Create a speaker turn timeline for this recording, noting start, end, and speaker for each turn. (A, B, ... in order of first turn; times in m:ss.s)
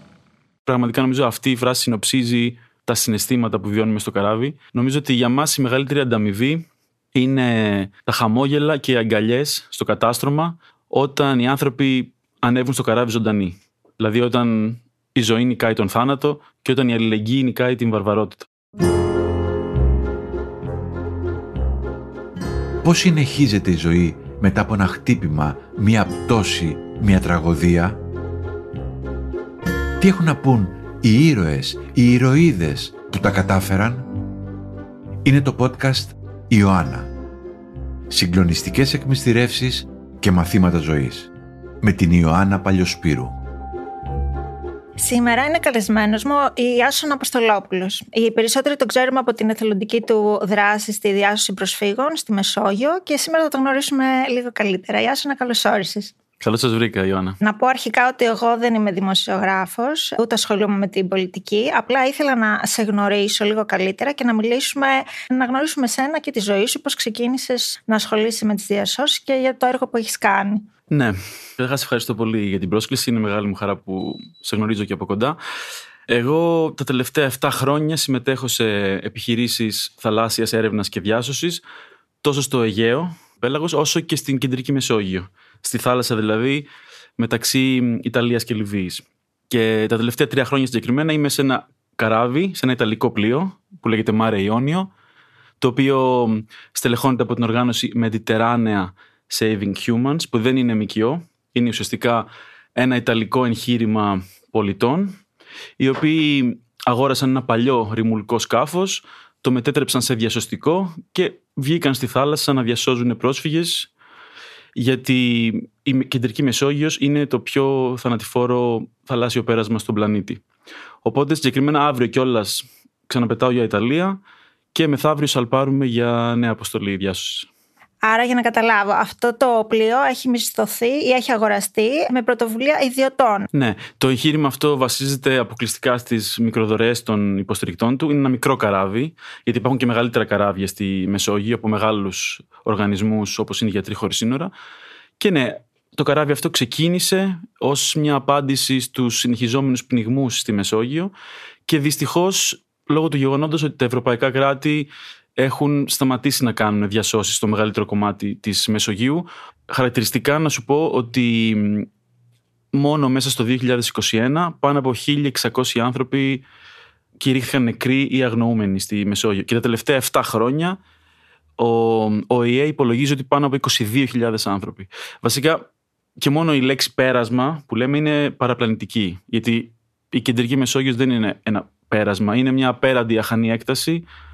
0:00.6-0:18.5 A
0:22.8-0:28.0 B
0:30.0-0:34.1 B
0:35.2-0:37.1 B
0:38.1-0:41.3 B
0:41.8-0:43.4 B
0:45.0-0:56.1 C
0:56.4-0:57.4 A
0:57.4-1:10.7 C
1:10.9-1:15.4 A
1:16.1-1:21.6 A
1:22.2-1:26.7 A
1:27.2-1:34.9 A
1:35.6-1:45.2 A
1:45.8-1:53.9 A
1:54.8-2:00.4 A
2:01.0-2:04.2 A
2:04.7-2:07.5 A
2:08.0-2:13.5 C
2:13.5-2:24.5 A
2:25.2-2:31.1 A
2:31.7-2:41.9 A
2:42.7-2:46.4 A
2:47.2-2:50.8 A
2:51.6-2:55.6 A
2:56.2-3:04.0 A